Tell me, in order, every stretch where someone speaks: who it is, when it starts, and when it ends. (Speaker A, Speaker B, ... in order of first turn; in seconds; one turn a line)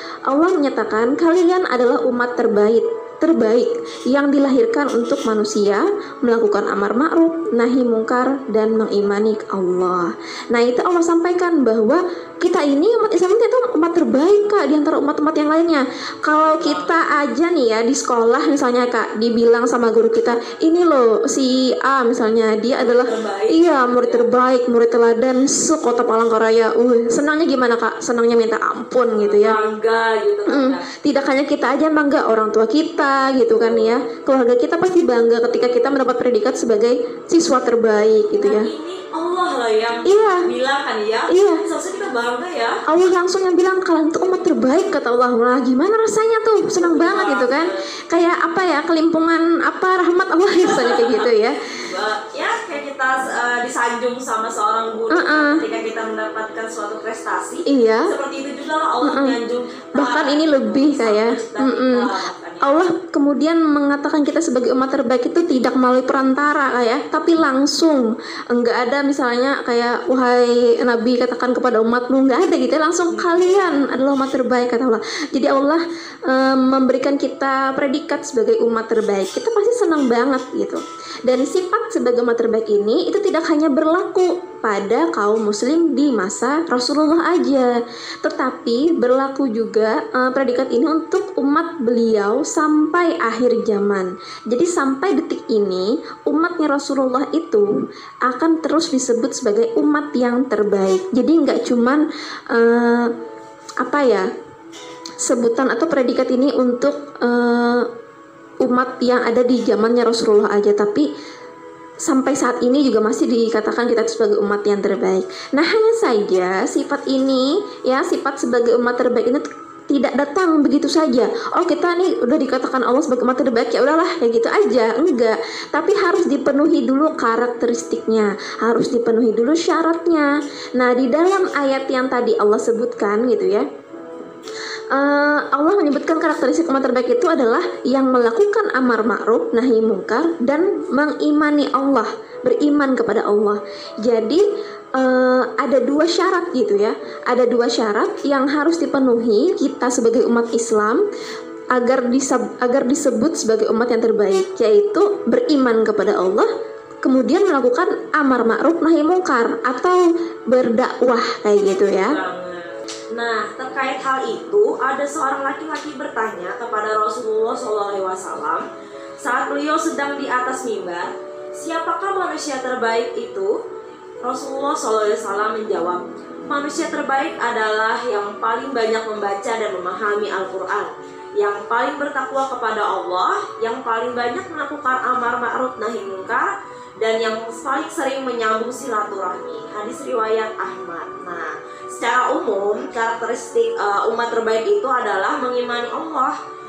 Speaker A: 0.3-29.6
Speaker B: 16.6-16.9
Speaker B: 22.8-24.3
Speaker B: 29.2-30.9
Speaker A: 30.5-38.7
Speaker B: 33.5-34.0
Speaker B: 38.4-42.8
Speaker A: 40.0-40.5
Speaker A: 41.3-41.6
Speaker A: 42.9-51.7
Speaker B: 46.8-47.8
Speaker B: 50.6-62.8
Speaker A: 55.1-55.6
Speaker A: 57.7-58.1
Speaker A: 59.0-59.4
Speaker A: 59.9-62.1
Speaker A: 62.6-97.7
Speaker B: 73.1-73.8
Speaker A: 98.2-103.1
Speaker A: 103.8-104.3
Speaker A: 105.2-107.9
Speaker A: 108.6-111.0
Speaker A: 112.0-133.7
Speaker A: 134.9-144.4
Speaker A: 144.9-151.0
Speaker A: 151.7-156.5
Speaker A: 157.0-162.2
Speaker B: 161.7-168.6
Speaker B: 169.2-173.5
Speaker B: 174.2-196.3